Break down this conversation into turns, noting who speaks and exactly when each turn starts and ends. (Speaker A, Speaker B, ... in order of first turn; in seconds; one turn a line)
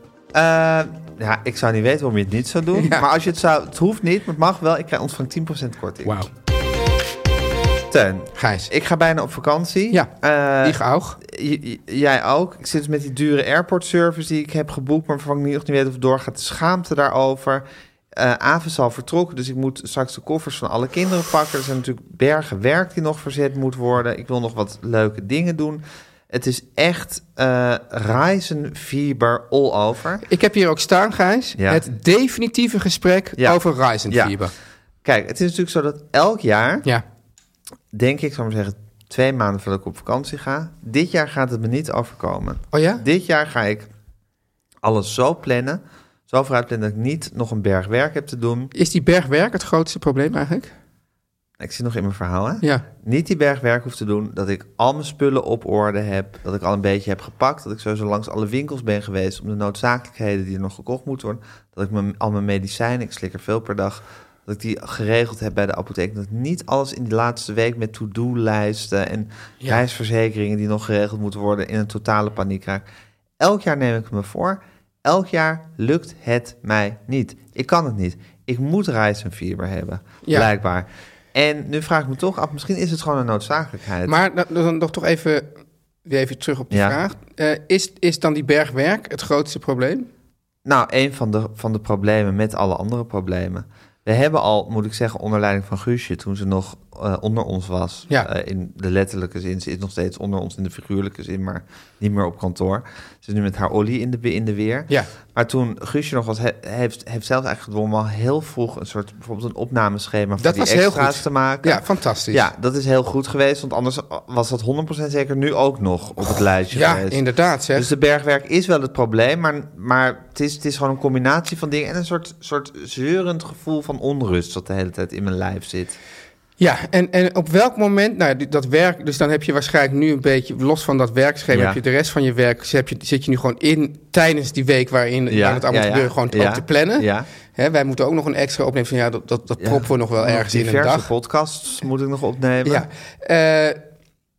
Speaker A: 0.3-6.2
Speaker B: 2.8-3.0
Speaker B: 6.0-6.3
Speaker A: 7.9-30.2
Speaker B: 8.3-8.7
Speaker B: 10.6-11.2
Speaker B: 30.3-34.5
Speaker A: 31.6-31.8
Speaker A: 33.4-34.4
Speaker A: 35.0-36.9
Speaker A: 37.9-43.9
Speaker B: 42.7-43.0
Speaker A: 44.8-48.7
Speaker B: 48.7-50.7
Speaker A: 51.6-72.8
Speaker A: 73.4-84.2
Speaker B: 84.0-85.5
Speaker B: 86.0-90.1
Speaker A: 86.7-87.0
Speaker A: 90.6-117.2
Speaker B: 110.4-112.5
Speaker B: 116.7-117.9
Speaker A: 117.7-126.0
Speaker B: 126.6-141.1
Speaker A: 131.5-131.8
Speaker A: 135.3-137.3
Speaker A: 139.6-142.9
Speaker B: 142.6-143.8